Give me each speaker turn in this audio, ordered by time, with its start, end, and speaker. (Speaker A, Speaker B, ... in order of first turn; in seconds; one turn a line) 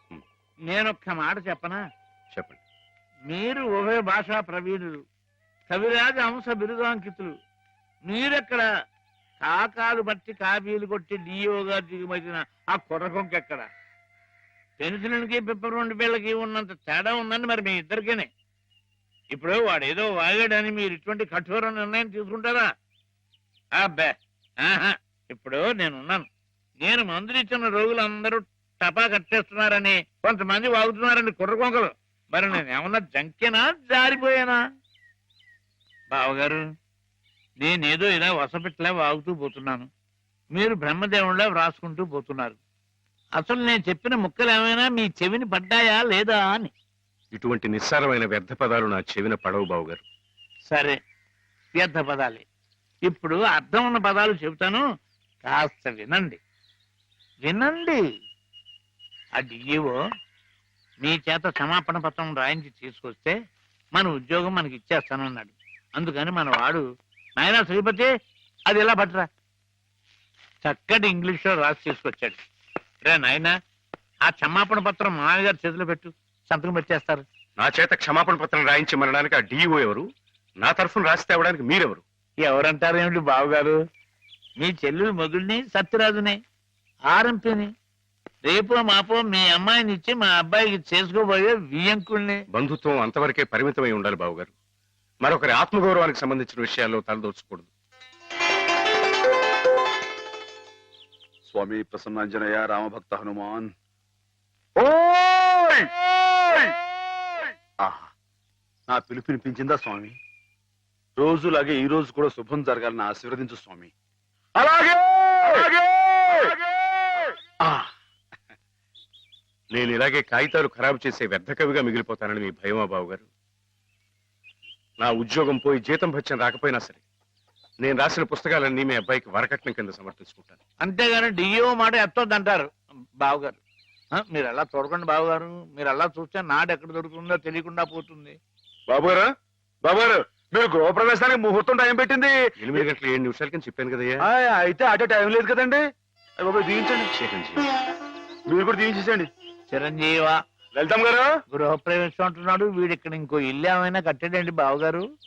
Speaker A: 0.7-1.8
Speaker B: 2.3-2.6
Speaker A: 3.3-5.0
Speaker A: 5.7-7.4
Speaker A: 8.1-8.6
Speaker A: 9.4-13.7
Speaker A: 14.8-18.3
Speaker A: 19.3-22.7
Speaker A: 23.8-26.3
Speaker A: 26.8-34.6
Speaker A: 36.1-36.6
Speaker A: 37.6-39.9
Speaker A: 40.5-42.6
Speaker A: 43.4-46.7
Speaker B: 47.3-50.0
Speaker A: 50.7-51.0
Speaker A: 51.7-52.4
Speaker A: 53.1-54.8
Speaker A: 55.5-56.4
Speaker A: 57.4-58.0
Speaker A: 59.4-60.0
Speaker A: 61.0-63.4
Speaker A: 63.9-66.8
Speaker A: 67.4-68.1
Speaker A: 68.7-69.3
Speaker A: 70.6-72.4
Speaker A: 73.0-73.5
Speaker A: 74.2-77.2
Speaker B: 77.6-80.1
Speaker B: 80.6-82.0
Speaker A: 82.4-83.8
Speaker A: 84.6-86.4
Speaker A: 87.1-87.7
Speaker A: 88.4-92.4
Speaker B: 92.5-94.5
Speaker B: 95.2-97.7
Speaker C: 101.5-103.7
Speaker C: 104.8-106.7
Speaker C: 108.9-110.2
Speaker C: 111.2-113.9
Speaker C: 114.6-116.5
Speaker C: 117.6-117.9
Speaker B: 119.7-123.2
Speaker B: 125.0-127.0
Speaker B: 127.8-130.6
Speaker A: 130.8-133.6
Speaker A: 134.2-138.4
Speaker C: 138.9-139.3
Speaker C: 139.8-142.8
Speaker B: 142.6-144.2
Speaker C: 144.2-145.8
Speaker C: 146.4-147.1
Speaker B: 147.1-147.6
Speaker C: 148.5-149.3
Speaker A: 149.7-150.4
Speaker C: 150.7-151.3
Speaker A: 151.5-155.0